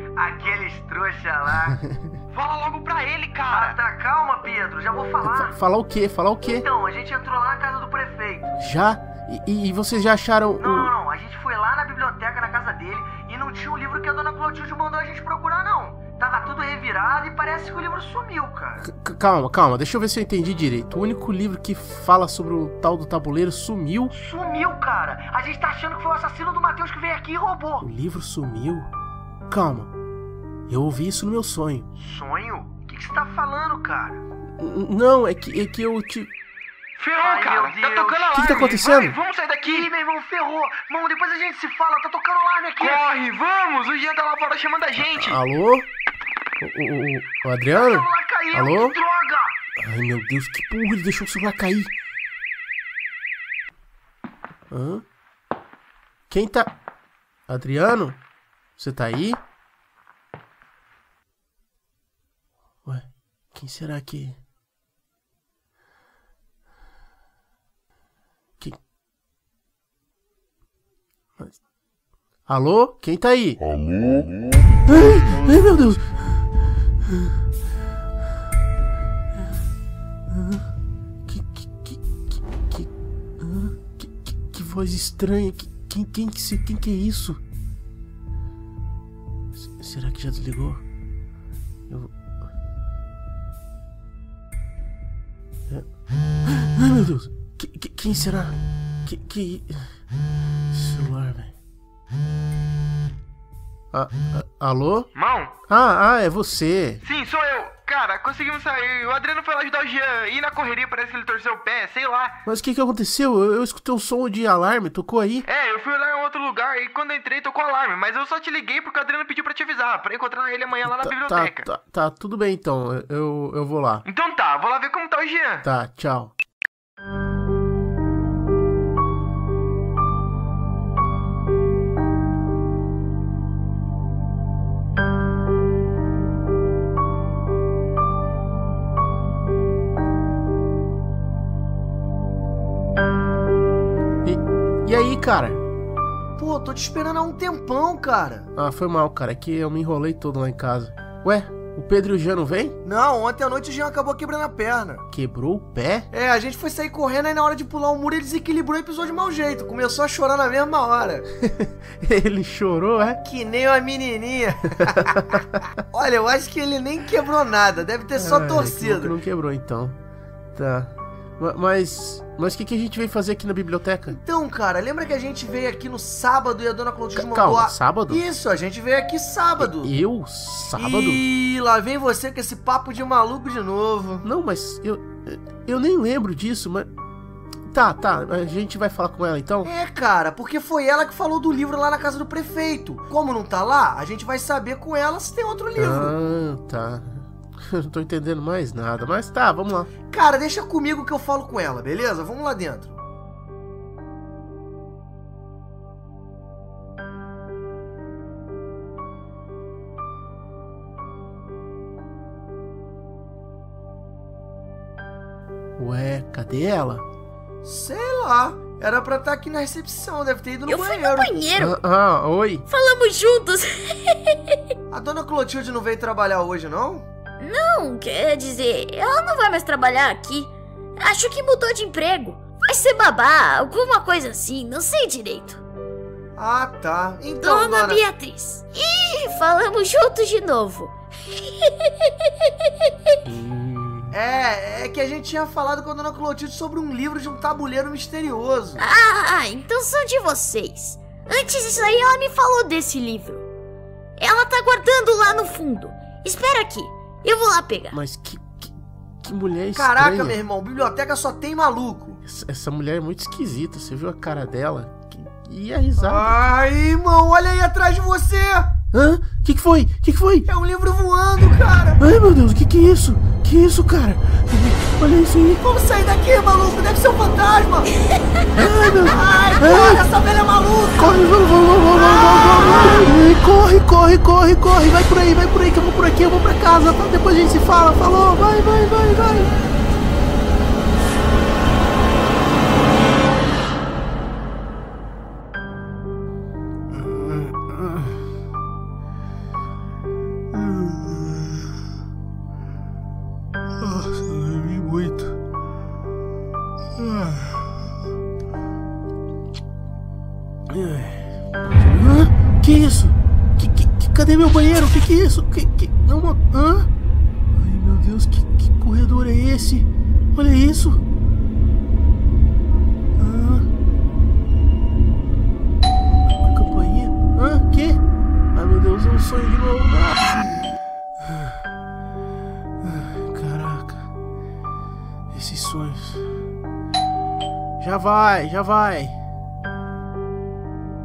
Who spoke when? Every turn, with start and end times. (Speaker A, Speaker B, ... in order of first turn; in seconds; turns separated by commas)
Speaker A: 0.2-1.8, Speaker B: 1.7-2.2, Speaker C: 2.3-3.8, Speaker A: 3.5-5.5, Speaker B: 5.2-6.7, Speaker A: 6.5-8.5, Speaker B: 8.6-10.9, Speaker A: 10.6-18.9, Speaker B: 18.8-24.1, Speaker A: 24.1-27.9, Speaker B: 27.8-28.9, Speaker B: 29.5-29.9, Speaker B: 30.7-31.9, Speaker A: 32.0-34.2, Speaker B: 34.6-36.3, Speaker C: 37.0-39.9, Speaker A: 37.2-38.7, Speaker B: 38.3-39.2, Speaker A: 39.6-43.0, Speaker C: 42.8-45.4, Speaker B: 45.0-45.9, Speaker B: 46.6-49.0, Speaker A: 47.7-49.5, Speaker B: 49.8-51.9, Speaker B: 54.7-55.0, Speaker B: 56.3-56.7, Speaker B: 57.5-58.2, Speaker B: 58.8-59.4, Speaker B: 62.8-64.4, Speaker B: 72.5-73.6, Speaker B: 74.8-76.4, Speaker B: 77.0-77.3, Speaker B: 80.3-80.7, Speaker B: 81.2-87.4, Speaker B: 89.5-90.8, Speaker B: 91.9-92.2, Speaker B: 96.4-99.9, Speaker B: 100.7-101.5, Speaker B: 103.9-105.1, Speaker C: 105.1-105.5, Speaker B: 105.7-107.0, Speaker C: 107.0-112.4, Speaker B: 112.5-115.5, Speaker C: 115.5-121.7, Speaker B: 120.8-124.0, Speaker C: 124.0-125.6, Speaker B: 125.6-126.3, Speaker B: 144.2-145.6, Speaker A: 146.4-148.5, Speaker B: 148.6-152.8, Speaker A: 152.8-155.0, Speaker B: 155.1-156.1, Speaker A: 156.1-161.2, Speaker B: 161.4-163.2, Speaker A: 163.2-169.1, Speaker B: 164.8-165.6, Speaker B: 168.2-170.0, Speaker B: 170.5-174.2, Speaker A: 174.1-179.9, Speaker B: 177.1-178.2, Speaker B: 179.6-181.2, Speaker A: 180.8-184.2, Speaker B: 184.2-186.9, Speaker B: 187.7-189.7, Speaker A: 189.6-196.1, Speaker B: 195.8-199.9, Speaker A: 200.1-203.0, Speaker B: 215.8-217.1, Speaker A: 217.6-221.3, Speaker D: 220.7-221.8, Speaker B: 221.6-222.6, Speaker D: 222.7-224.6, Speaker A: 224.9-227.1, Speaker D: 227.4-235.6, Speaker A: 236.3-238.0, Speaker D: 237.4-243.2, Speaker B: 243.3-244.1, Speaker A: 244.1-248.8, Speaker D: 248.8-253.5, Speaker D: 254.2-258.0, Speaker B: 257.9-260.4, Speaker A: 259.7-262.2, Speaker B: 262.2-266.3, Speaker A: 266.0-268.7, Speaker B: 268.9-270.5, Speaker A: 270.5-272.0, Speaker B: 272.0-275.6, Speaker A: 275.6-278.0, Speaker B: 278.6-280.0, Speaker A: 278.8-281.2, Speaker B: 280.9-289.5, Speaker A: 281.9-283.1, Speaker B: 296.9-298.2, Speaker B: 300.5-301.7, Speaker B: 303.8-305.4, Speaker B: 306.9-307.7, Speaker B: 310.7-316.9, Speaker B: 317.5-321.0, Speaker B: 323.2-323.7, Speaker B: 326.4-328.0, Speaker B: 328.5-331.6, Speaker B: 332.8-334.1, Speaker B: 335.3-336.3, Speaker B: 337.8-339.1